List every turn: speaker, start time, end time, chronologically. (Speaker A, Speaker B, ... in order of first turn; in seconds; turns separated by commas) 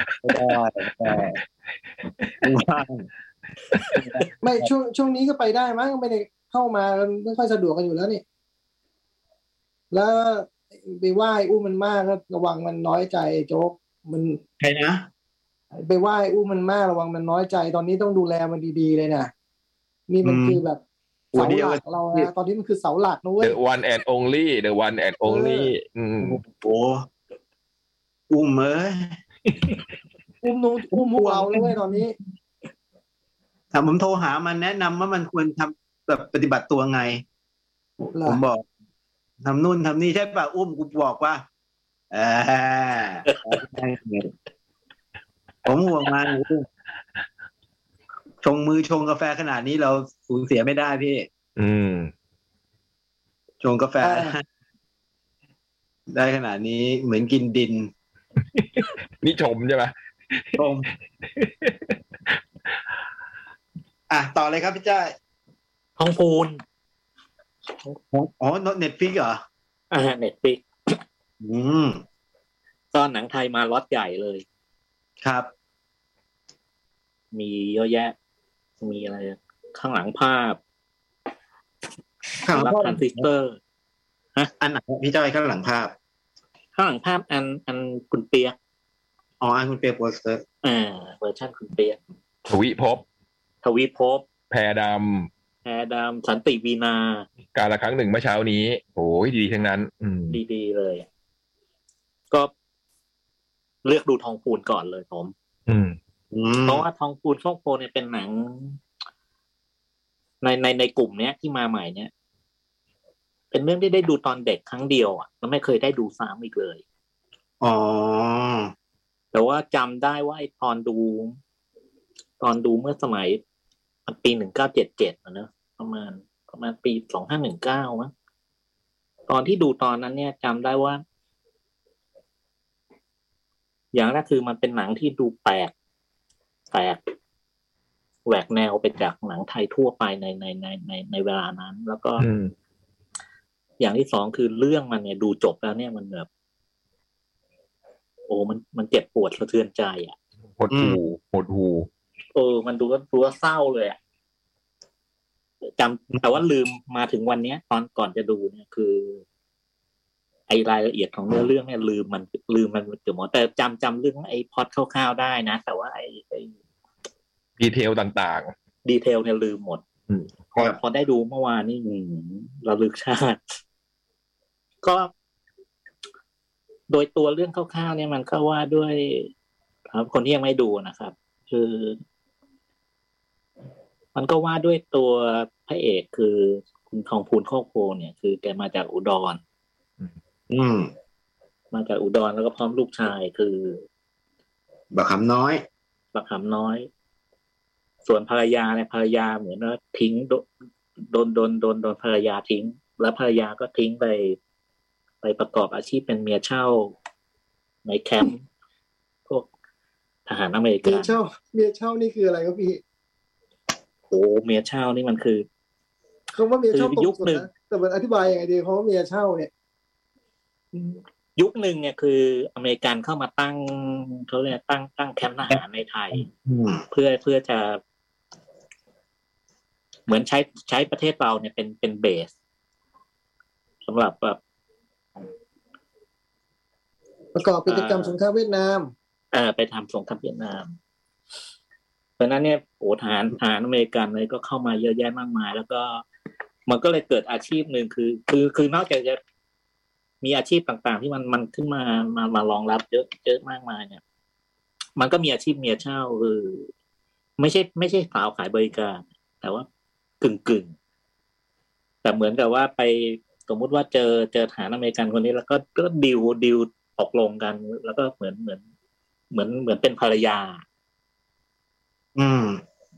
Speaker A: 0.2-1.4, Speaker A: 2.4-3.1, Speaker B: 3.8-4.0, Speaker C: 4.4-8.2, Speaker C: 9.9-14.4, Speaker A: 14.6-15.1, Speaker C: 15.7-19.3, Speaker C: 20.1-20.8, Speaker A: 20.2-20.6, Speaker A: 21.3-22.3, Speaker C: 21.3-23.6, Speaker D: 23.4-26.4, Speaker C: 25.2-25.7, Speaker A: 26.2-27.1, Speaker A: 28.3-29.2, Speaker C: 30.4-32.1, Speaker A: 30.9-31.6, Speaker A: 33.7-37.2, Speaker C: 38.0-38.4, Speaker A: 38.2-38.6, Speaker A: 39.4-41.4, Speaker A: 42.1-44.3, Speaker B: 43.3-43.6, Speaker A: 45.6-46.7, Speaker A: 48.4-51.3, Speaker D: 51.6-52.1, Speaker A: 53.6-54.4, Speaker C: 54.0-54.4, Speaker A: 56.1-57.9, Speaker D: 58.5-60.6, Speaker A: 60.5-60.9, Speaker D: 61.2-62.4, Speaker A: 64.1-65.1, Speaker B: 66.0-66.6, Speaker A: 68.1-69.4, Speaker B: 69.9-70.6, Speaker A: 71.4-72.0, Speaker B: 72.9-74.4, Speaker A: 75.2-75.5, Speaker B: 77.3-78.1, Speaker B: 78.8-80.6, Speaker A: 82.4-83.3, Speaker B: 82.5-83.6, Speaker A: 84.6-85.9, Speaker B: 86.7-88.5, Speaker A: 89.4-90.4, Speaker B: 90.6-92.0, Speaker D: 92.5-93.0, Speaker B: 93.6-94.2, Speaker D: 94.5-95.3, Speaker B: 95.6-97.3, Speaker D: 97.5-100.4, Speaker B: 100.3-101.0, Speaker B: 103.8-105.3, Speaker D: 105.7-106.0, Speaker A: 106.3-106.8, Speaker B: 106.6-108.8, Speaker B: 110.4-112.1, Speaker B: 113.5-116.8, Speaker A: 117.6-118.7, Speaker B: 119.3-121.4, Speaker B: 122.4-123.4, Speaker B: 124.1-128.1, Speaker B: 129.3-131.0, Speaker B: 133.9-135.7, Speaker B: 136.7-137.0, Speaker B: 138.2-142.2, Speaker D: 142.2-142.5, Speaker B: 143.8-146.3, Speaker B: 148.3-150.1, Speaker D: 150.6-151.9, Speaker A: 150.7-151.0, Speaker B: 152.3-154.0, Speaker B: 155.8-159.2, Speaker B: 160.5-166.5, Speaker D: 167.6-168.5, Speaker B: 168.8-169.8, Speaker D: 170.1-170.3, Speaker B: 170.5-173.6, Speaker B: 174.8-175.1, Speaker B: 176.9-179.3, Speaker B: 179.9-182.0, Speaker B: 184.1-189.4, Speaker A: 190.5-190.9, Speaker B: 191.7-193.8, Speaker A: 194.9-195.6, Speaker B: 196.1-196.9, Speaker B: 198.0-200.4, Speaker B: 201.0-204.4, Speaker B: 205.2-206.9, Speaker B: 207.8-208.4, Speaker B: 210.3-211.1, Speaker C: 210.8-212.8, Speaker B: 214.1-215.5, Speaker C: 216.3-219.5, Speaker B: 216.7-217.4, Speaker B: 220.7-226.3, Speaker A: 226.1-226.8, Speaker B: 226.9-227.8, Speaker B: 230.1-232.3, Speaker B: 233.8-234.4, Speaker C: 237.3-238.9, Speaker B: 237.7-238.2, Speaker B: 239.3-240.7, Speaker B: 242.2-246.0, Speaker B: 246.7-249.2, Speaker B: 250.2-254.0, Speaker B: 255.0-256.7, Speaker B: 257.4-259.6, Speaker B: 260.2-260.7, Speaker B: 262.0-268.6, Speaker B: 269.3-270.6, Speaker A: 272.1-272.6